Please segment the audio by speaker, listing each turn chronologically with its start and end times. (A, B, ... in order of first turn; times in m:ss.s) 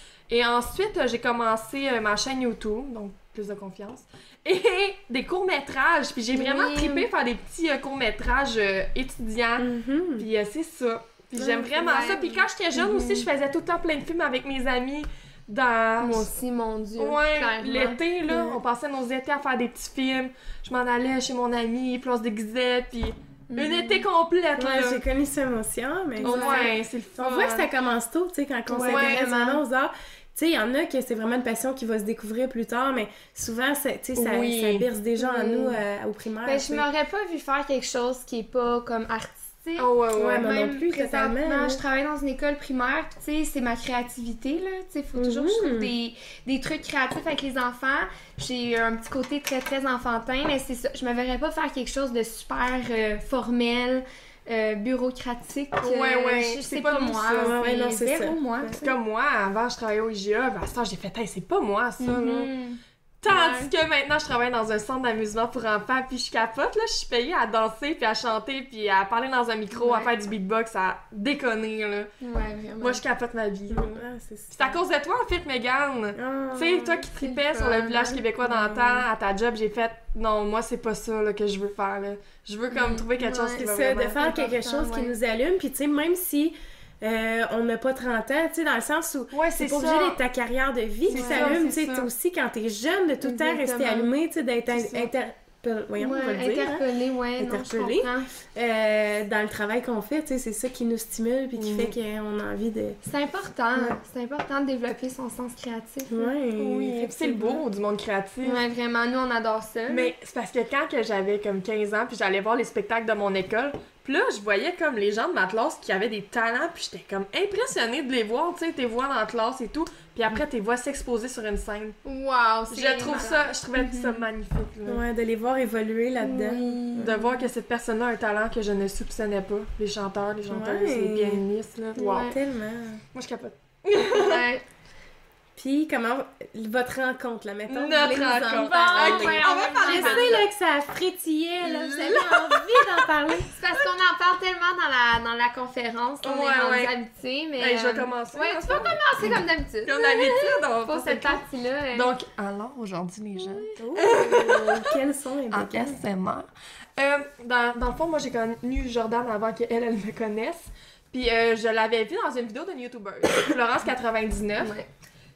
0:00.3-0:16.3 A
0:06.3-0:07.1 B
0:09.6-0:10.3 C
0:11.3-0:12.2 C
0:11.8-0:13.3 B
0:16.0-0:18.0 B
0:17.0-0:25.0 A
0:23.5-0:24.0 B
0:24.6-0:36.9 C
0:26.2-0:26.7 B
0:26.2-0:27.7 A
0:28.7-0:29.6 B
0:28.8-0:29.2 A
0:34.2-0:35.3 A
0:36.4-0:59.0 B
0:39.8-0:40.5 A
0:40.1-0:41.8 C
0:45.1-0:45.9 C
0:55.8-0:57.6 A
0:57.4-0:58.7 C
0:58.8-1:02.5 A
1:02.0-1:03.7 B
1:03.2-1:12.1 A
1:09.7-1:10.1 B
1:12.2-1:13.0 B
1:12.8-1:14.0 A
1:13.7-1:14.8 C
1:14.5-1:24.2 A
1:16.2-1:17.0 C
1:17.1-1:18.2 B
1:18.4-1:19.0 C
1:22.7-1:25.1 B
1:23.5-1:36.8 C
1:29.3-1:30.2 A
1:31.0-1:32.1 A
1:31.1-1:31.6 B
1:33.2-1:34.1 B
1:34.7-1:35.1 A
1:36.0-1:38.3 B
1:37.4-1:43.0 C
1:41.6-1:42.0 A
1:43.0-1:46.3 B
1:46.1-1:47.6 C
1:46.6-1:48.6 A
1:48.4-1:50.1 B
1:49.9-2:02.0 A
2:02.0-2:04.2 B
2:02.7-2:05.0 A
2:04.8-2:07.2 C
2:06.2-2:07.3 B
2:07.0-2:12.3 A
2:10.5-2:11.4 C
2:12.0-2:13.0 C
2:12.0-2:12.3 B
2:13.1-2:14.5 A
2:14.1-2:14.6 B
2:15.6-2:23.5 C
2:17.7-2:20.4 A
2:18.5-2:20.4 B
2:21.9-2:22.3 A
2:22.0-2:22.4 B
2:23.5-2:32.1 B
2:26.2-2:26.9 A
2:27.6-2:34.9 A
2:33.4-2:33.8 B
2:33.8-2:36.0 C
2:35.5-2:44.7 A
2:44.6-2:44.9 B